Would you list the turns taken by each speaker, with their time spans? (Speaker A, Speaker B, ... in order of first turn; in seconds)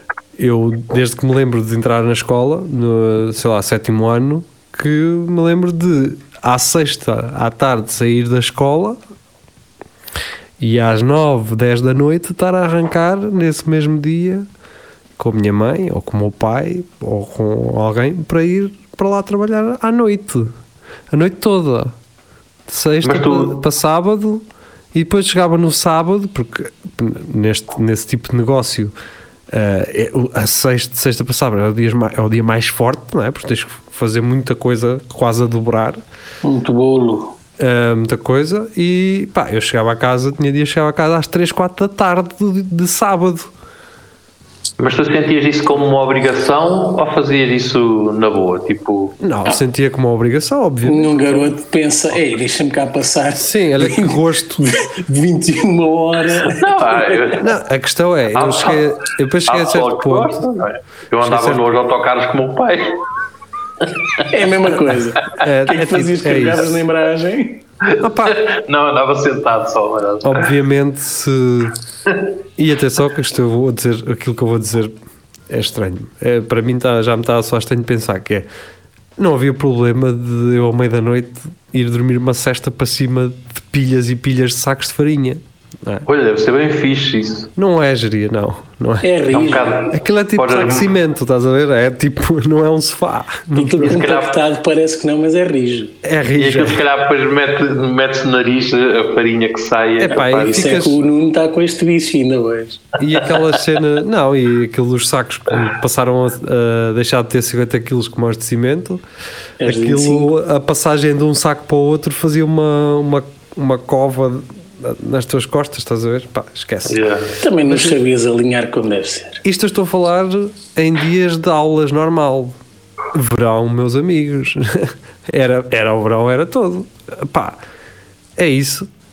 Speaker A: 0.4-9.0, 10.6-14.5, 15.2-20.5, 21.1-21.9, 22.7-28.9, 29.5-36.0, 37.6-43.5, 49.2-51.5, 53.4-54.7, 57.4-60.4, 61.2-61.7, 65.3-66.8, 68.0-68.4, 70.2-71.8, 72.6-74.9, 75.5-78.5, 79.2-86.1, 87.6-89.2, 89.9-94.0, 96.0-96.8, 100.0-101.0, 103.0-109.0, 109.6-117.0, 117.7-118.0, 119.5-122.6, 123.1-127.6, 128.4-128.8
Speaker B: 23.0-23.6, 44.8-49.2, 56.4-57.5, 58.4-63.0, 63.8-64.3, 67.9-70.5, 86.1-87.5, 89.3-90.9, 93.8-94.4, 96.4-100.8, 116.9-117.3
Speaker C: 36.4-37.4, 50.9-57.4, 64.3-67.7, 89.0-89.9, 93.6-96.0, 100.1-102.9, 109.6-110.3, 117.4-119.4